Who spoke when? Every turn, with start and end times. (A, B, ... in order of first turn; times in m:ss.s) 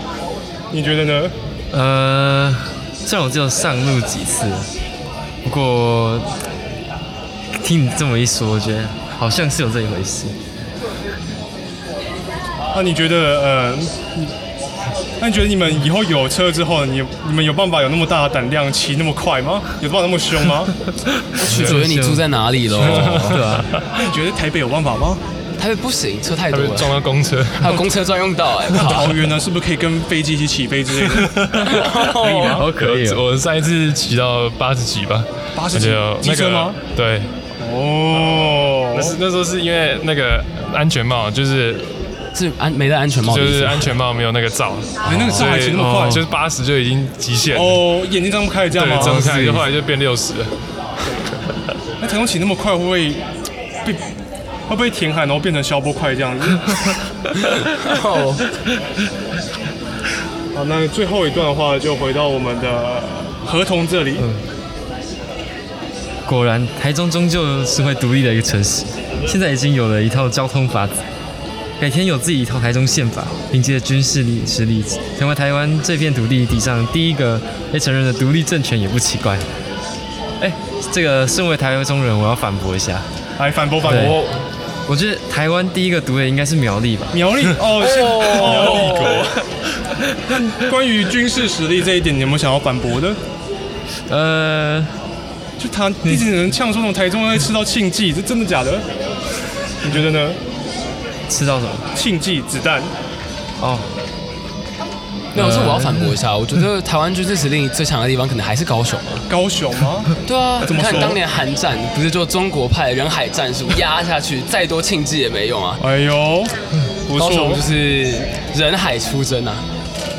0:00.7-0:01.4 A
0:01.7-0:04.7 B
0:05.4-0:06.4 B
0:07.6-0:10.3 B
0:12.7-0:14.3 A
0:15.2-0:20.7 A
0:21.4-0:23.5 C
0:21.4-0:21.8 D
0:21.5-0:22.3 B
0:22.8-0:23.9 D
0:22.9-0:23.7 B
0:23.9-0:25.2 A
0:25.6-0:27.0 C
0:26.5-0:27.9 D
0:27.6-0:29.2 C
0:28.7-0:32.7 A
0:31.1-0:37.3 D
0:31.7-0:32.5 C
0:32.5-0:33.2 B
0:35.6-0:36.8 A
0:37.6-0:39.2 A
0:38.2-0:41.9 D
0:42.3-0:43.9 C
0:43.2-0:47.9 D
0:45.1-0:46.2 A
0:45.1-0:46.3 B
0:47.5-0:49.4 A
0:48.7-0:50.6 D
0:49.1-0:49.6 C
0:52.0-0:53.2 A
0:54.7-0:56.8 A
0:57.7-0:58.5 C
1:00.5-1:04.3 A
1:06.3-1:11.0 B
1:11.8-1:19.5 B
1:20.4-1:23.1 B
1:23.4-1:24.2 A
1:23.8-1:24.2 B
1:24.9-1:27.2 B
1:27.1-1:29.4 A
1:28.6-1:28.9 D
1:28.7-1:29.1 B
1:30.3-1:33.2 A
1:34.1-1:35.0 B
1:35.6-1:38.9 A
1:36.0-1:36.3 B
1:39.8-1:40.4 A
1:41.3-1:41.9 B
1:41.9-1:42.9 A
1:43.6-1:43.9 B
1:45.3-1:49.3 C
1:45.4-1:46.2 B
1:49.3-1:51.2 A
1:50.2-1:55.8 C
1:55.8-1:57.6 A
1:57.1-1:59.7 C